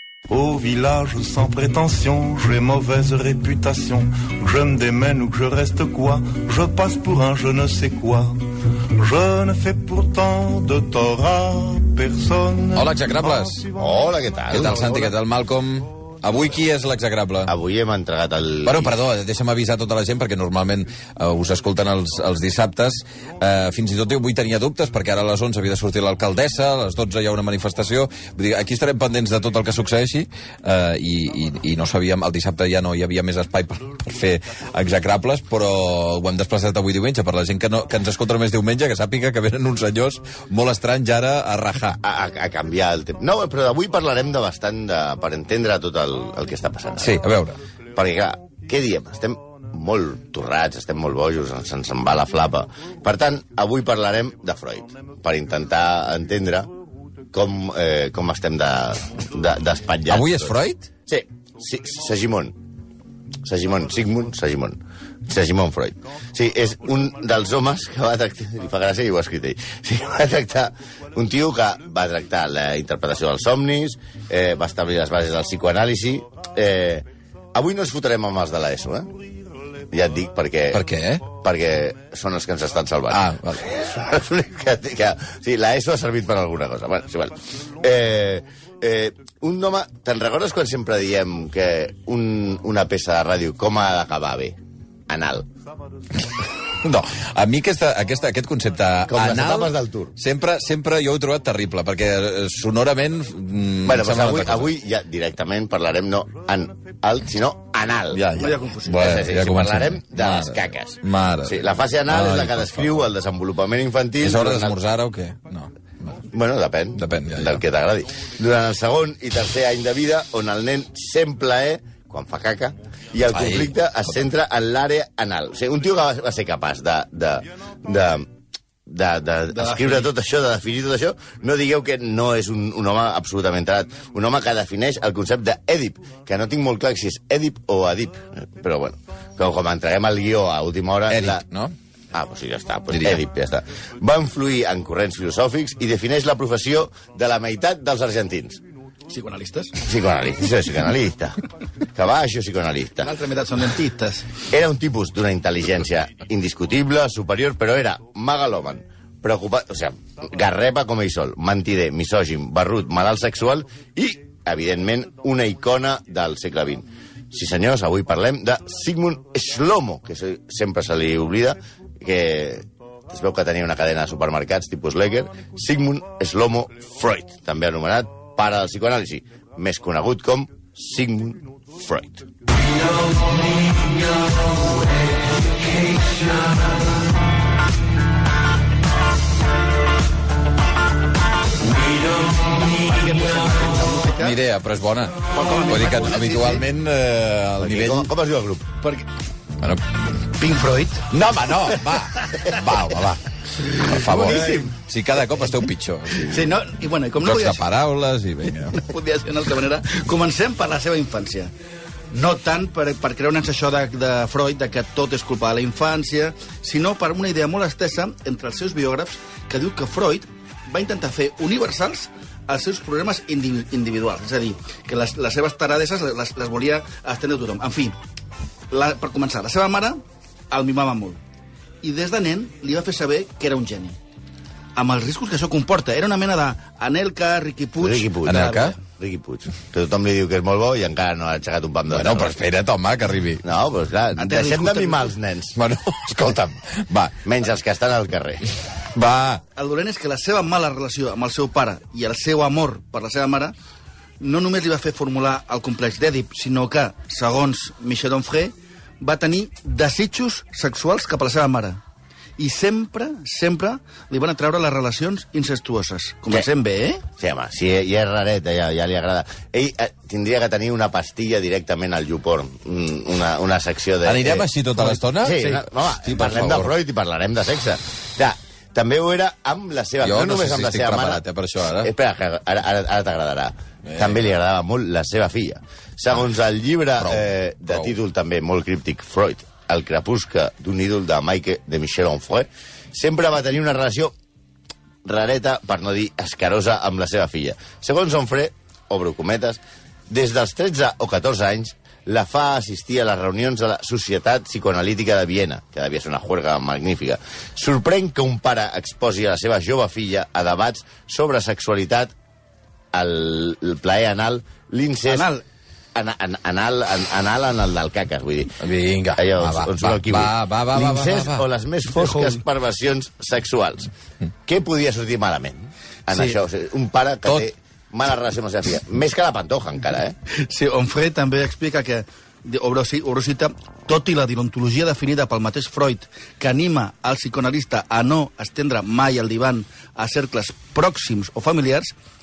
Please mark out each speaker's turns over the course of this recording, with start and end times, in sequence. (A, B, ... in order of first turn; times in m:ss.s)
0:00.3-0:14.2 A
0:12.7-0:13.6 B
0:13.8-0:15.0 C
0:14.5-0:17.5 B
0:14.8-0:15.1 A
0:17.5-0:18.9 C
0:18.6-0:42.0 B
0:42.0-0:47.2 C
0:47.0-0:47.6 B
0:47.9-0:56.7 C
0:57.3-1:00.6 C
1:00.1-1:00.9 B
1:01.1-1:02.6 C
1:03.4-1:19.2 C
1:19.9-1:34.6 C
1:20.7-1:21.3 B
1:23.1-1:23.7 B
1:35.1-1:35.5 C
1:36.8-1:44.7 B
1:39.1-1:40.2 C
1:43.8-1:48.2 C
1:48.1-1:53.1 B
1:48.3-1:49.2 D
1:48.9-1:54.8 C
1:54.2-1:56.1 B
1:56.3-2:08.3 C
1:57.0-1:57.6 B
2:03.3-2:03.8 B
2:08.9-2:21.4 C
2:09.5-2:10.1 D
2:21.1-2:21.8 B
2:22.1-2:28.6 C
2:22.9-2:23.2 B
2:29.1-2:29.8 D
2:29.8-2:31.4 C
2:32.0-2:33.2 C
2:33.0-2:34.3 D
2:34.5-3:02.3 C
3:12.7-3:14.4 D
3:14.2-3:18.1 B
3:15.3-3:16.6 D
3:17.6-3:18.7 C
3:20.4-3:21.1 D
3:21.1-3:26.5 B
3:23.8-3:24.7 D
3:24.2-3:24.7 C
3:26.2-3:27.7 D
3:27.2-3:28.8 B
3:28.7-3:31.5 D
3:32.1-3:48.0 D
3:48.7-3:51.2 D
3:51.8-3:54.0 D
3:54.8-3:58.8 D
3:57.8-4:02.4 C
3:58.2-3:58.7 B
4:01.9-4:03.4 B
4:03.4-4:05.6 C
4:04.2-4:05.1 D
4:05.6-4:07.2 B
4:07.2-4:08.5 C
4:08.9-4:09.4 B
4:09.6-4:13.6 D
4:14.2-4:21.8 D
4:22.4-4:27.0 D
4:27.2-4:34.5 C
4:34.0-4:36.8 B
4:35.1-4:41.2 C
4:35.4-4:35.6 D
4:40.0-4:41.9 B
4:41.8-4:54.1 C
4:43.9-4:44.2 B
4:47.0-4:47.9 B
4:55.0-5:12.1 C
5:12.9-5:15.3 C
5:15.1-5:15.4 D
5:16.0-5:18.6 C
5:18.6-5:21.4 B
5:19.2-5:23.9 C
5:21.9-5:22.4 D
5:24.5-5:30.2 C
5:30.3-5:41.9 D